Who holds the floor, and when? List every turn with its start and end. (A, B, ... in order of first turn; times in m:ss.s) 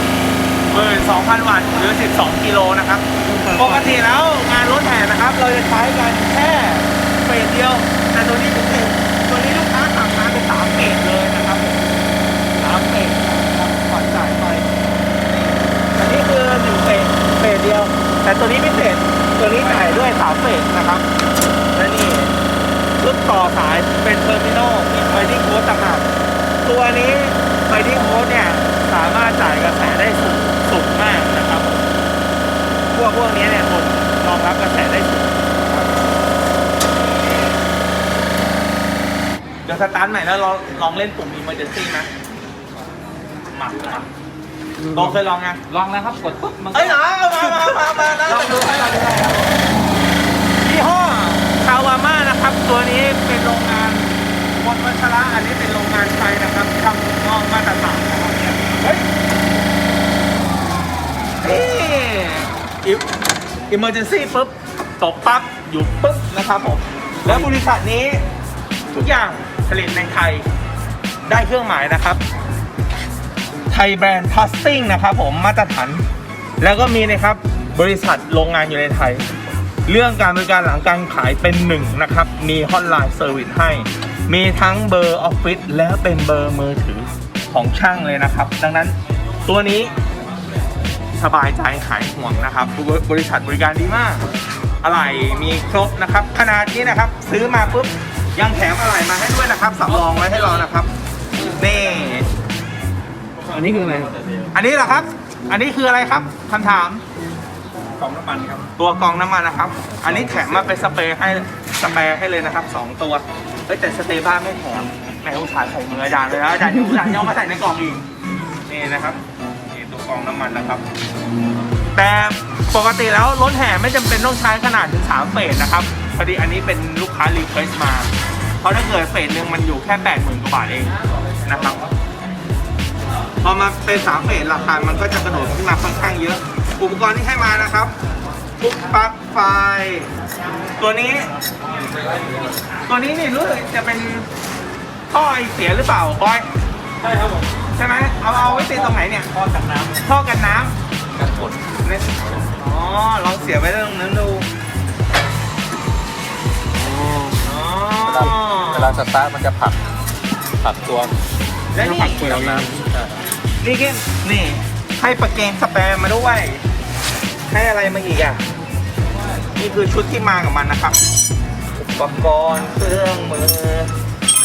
0:00.7-0:11.8 A
0:03.2-0:04.0 B
0:12.6-0:14.7 A
0:15.3-0:21.1 A
0:21.7-0:22.4 A
0:23.0-0:26.1 A
0:26.6-0:31.9 A
0:32.9-0:35.8 A
0:39.6-0:42.1 A
0:43.5-0:44.1 A
0:44.8-0:45.1 B
0:44.9-0:45.6 A
0:45.7-0:49.4 B
0:46.7-0:49.3 A
0:50.6-0:59.1 A
1:01.4-1:03.1 A
1:03.7-1:08.2 A
1:08.9-1:10.4 A
1:11.3-1:12.2 A
1:13.7-1:16.0 A
1:16.6-1:19.3 A
1:19.9-1:29.9 A
1:31.2-1:34.3 A
1:34.8-1:40.9 A
1:41.6-1:42.3 A
1:43.4-1:44.2 B
1:44.5-1:47.0 A
1:48.0-1:48.7 B
1:48.8-1:58.1 A
1:58.7-2:00.8 A
2:02.0-2:08.1 A
2:08.6-2:11.8 A
2:13.4-2:17.9 A
2:18.6-2:20.1 A
2:20.8-2:21.3 A
2:22.8-2:24.3 A
2:25.1-2:26.5 A
2:27.0-2:27.4 B
2:27.7-2:29.3 A
2:28.5-2:30.0 B
2:29.9-2:30.8 A
2:31.2-2:31.6 B
2:31.8-2:34.5 A
2:36.8-2:37.4 B
2:37.4-2:39.0 A
2:38.1-2:39.8 B
2:40.6-2:41.2 B
2:41.7-2:42.7 A
2:41.8-2:43.1 B
2:43.6-2:46.6 A
2:47.5-2:48.4 A
2:49.6-2:51.0 A
2:51.8-2:53.9 A